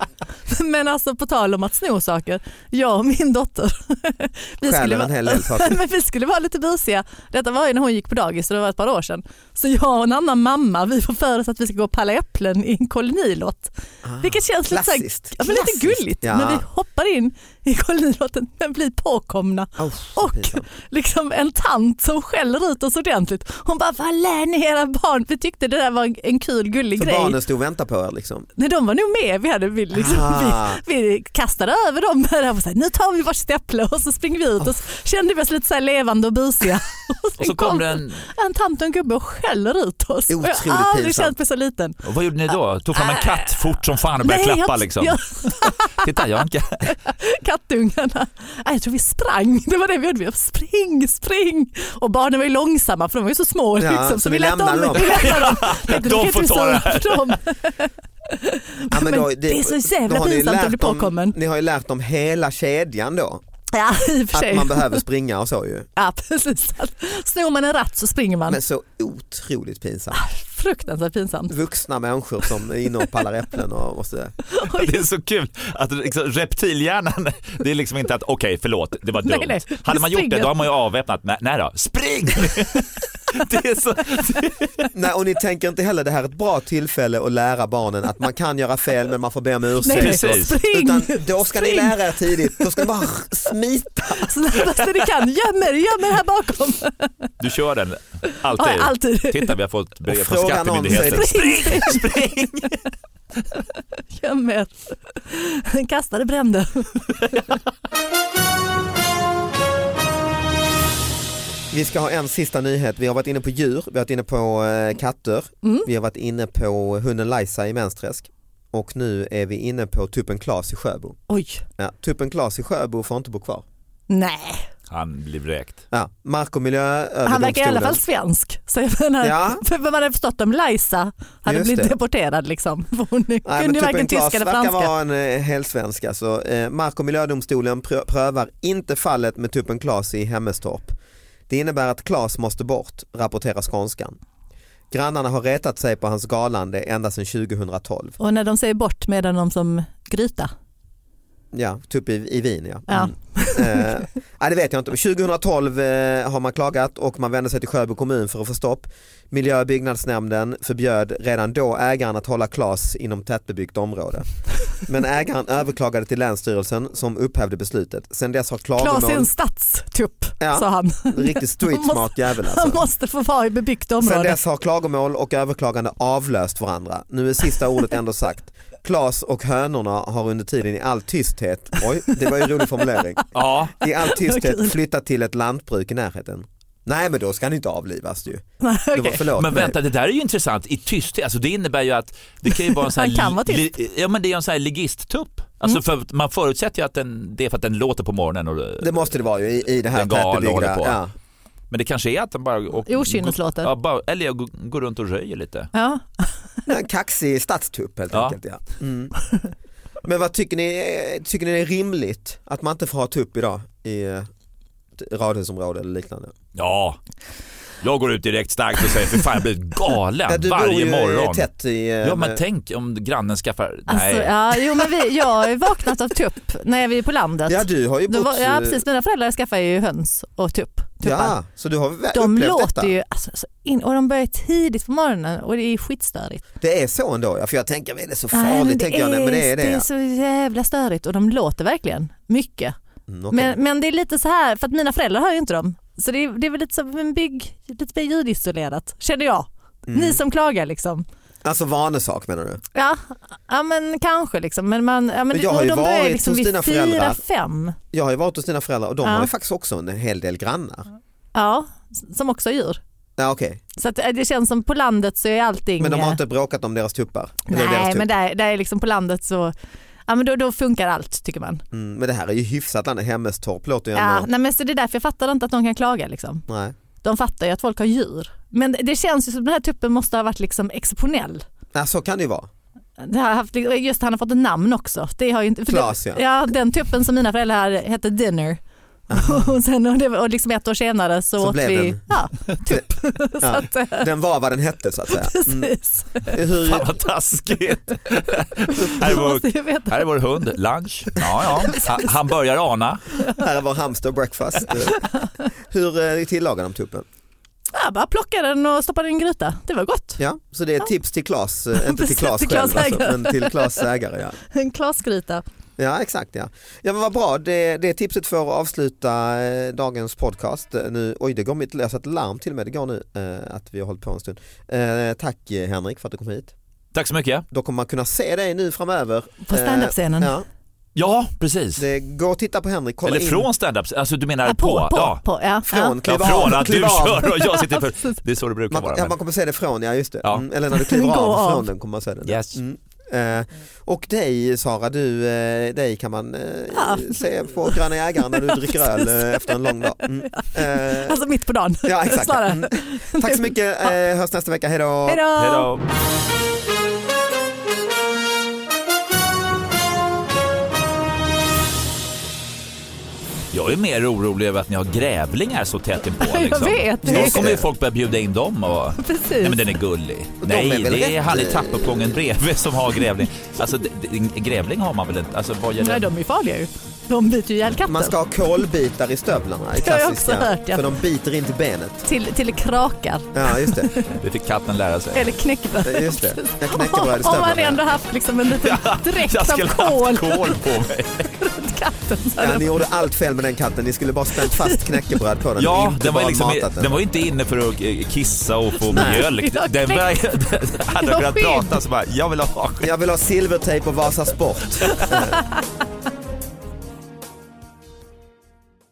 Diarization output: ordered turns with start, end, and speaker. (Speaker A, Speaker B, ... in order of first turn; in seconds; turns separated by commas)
Speaker A: 0.5-27.4, Speaker B: 4.6-5.8, Speaker B: 14.0-16.6, Speaker B: 19.8-20.6, Speaker B: 26.9-28.5, Speaker A: 28.6-42.0, Speaker B: 29.9-30.8, Speaker C: 37.4-38.2, Speaker B: 40.3-41.4, Speaker C: 42.0-46.9, Speaker A: 43.0-43.5, Speaker A: 44.2-46.2, Speaker A: 46.8-61.4, Speaker B: 53.8-55.4, Speaker C: 55.0-57.4, Speaker B: 58.9-63.4, Speaker A: 63.7-65.0, Speaker B: 64.3-65.9, Speaker A: 66.0-68.6, Speaker B: 68.5-70.2, Speaker A: 70.1-71.5, Speaker B: 71.5-74.3, Speaker A: 74.5-75.0, Speaker C: 74.7-84.9, Speaker A: 79.2-80.5, Speaker B: 84.9-94.3, Speaker A: 89.8-92.8, Speaker C: 89.9-90.6, Speaker A: 94.2-97.3, Speaker C: 97.4-102.8, Speaker A: 98.6-99.5, Speaker B: 100.1-101.7, Speaker A: 100.9-102.0, Speaker A: 104.1-107.2, Speaker B: 111.7-121.2, Speaker A: 115.6-115.9, Speaker A: 121.3-121.6, Speaker B: 121.8-123.6, Speaker A: 124.1-124.7, Speaker C: 124.9-125.8, Speaker B: 125.9-128.0, Speaker A: 127.2-134.9, Speaker B: 129.2-129.6, Speaker B: 131.4-131.9, Speaker B: 133.4-140.9, Speaker B: 141.5-144.2, Speaker B: 144.9-148.2, Speaker A: 148.2-150.5, Speaker B: 151.5-169.3, Speaker A: 152.9-153.9, Speaker A: 168.8-174.4, Speaker B: 170.4-172.8, Speaker B: 174.0-183.3, Speaker C: 183.3-183.7, Speaker B: 183.8-189.8, Speaker A: 184.0-184.8, Speaker A: 188.6-189.3, Speaker C: 189.4-199.0, Speaker A: 192.4-193.7, Speaker B: 198.8-201.1, Speaker C: 199.9-201.0, Speaker C: 201.7-205.7, Speaker A: 202.9-203.7, Speaker A: 205.7-206.7, Speaker B: 206.7-209.1, Speaker B: 210.0-214.3, Speaker B: 215.0-216.3, Speaker C: 216.5-217.0, Speaker C: 217.8-221.5, Speaker B: 220.3-222.4, Speaker C: 222.0-224.9, Speaker A: 223.9-231.4, Speaker B: 227.5-228.8, Speaker B: 231.0-232.9, Speaker A: 232.1-236.4, Speaker B: 236.6-239.8, Speaker A: 238.3-242.8, Speaker B: 243.1-243.6, Speaker A: 243.3-251.0, Speaker B: 249.9-250.2, Speaker B: 251.4-252.6, Speaker A: 252.7-257.8, Speaker B: 255.3-257.2, Speaker B: 257.9-260.9, Speaker A: 259.0-259.3, Speaker A: 261.3-262.8, Speaker B: 263.2-263.6, Speaker A: 263.8-266.2, Speaker B: 265.8-268.1, Speaker A: 267.5-269.5, Speaker A: 270.1-271.6, Speaker B: 271.7-274.3, Speaker A: 273.9-276.4, Speaker B: 276.5-276.7, Speaker A: 277.0-281.4, Speaker B: 281.7-282.5, Speaker A: 283.0-288.6, Speaker B: 285.7-286.3, Speaker B: 289.1-289.5, Speaker A: 289.1-294.1, Speaker B: 291.4-292.0, Speaker B: 293.4-296.9, Speaker A: 295.1-296.3, Speaker C: 296.6-303.0, Speaker A: 298.7-300.0, Speaker B: 303.3-305.1, Speaker B: 305.6-307.1, Speaker A: 307.7-310.2, Speaker B: 310.2-314.4, Speaker A: 311.8-313.8, Speaker A: 314.5-315.4, Speaker B: 315.8-326.5, Speaker C: 326.9-327.4, Speaker B: 327.5-330.4, Speaker A: 329.4-330.3, Speaker C: 330.9-331.9, Speaker B: 331.8-333.5, Speaker C: 333.0-335.2, Speaker A: 334.4-336.0, Speaker B: 335.6-337.3, Speaker C: 336.0-339.1, Speaker A: 337.4-338.2, Speaker B: 338.7-351.2, Speaker A: 340.7-341.6, Speaker C: 342.2-342.6, Speaker A: 346.7-353.5, Speaker B: 351.8-355.2, Speaker A: 355.1-355.7, Speaker C: 355.4-355.8, Speaker C: 363.5-376.1, Speaker A: 366.2-367.5, Speaker B: 367.0-367.7, Speaker A: 369.0-369.6, Speaker B: 370.4-372.2, Speaker A: 375.8-378.1, Speaker B: 377.9-382.0, Speaker A: 379.7-380.8, Speaker A: 382.0-384.1, Speaker B: 383.3-383.9, Speaker C: 384.2-385.3, Speaker A: 385.1-390.6, Speaker B: 385.8-387.8, Speaker C: 388.6-391.3, Speaker A: 391.4-392.7, Speaker B: 392.4-397.0, Speaker A: 394.4-395.2, Speaker C: 395.6-402.9, Speaker B: 398.9-399.2, Speaker A: 398.9-400.2, Speaker A: 401.0-401.7, Speaker B: 402.8-405.4, Speaker C: 404.8-405.1, Speaker A: 405.1-405.4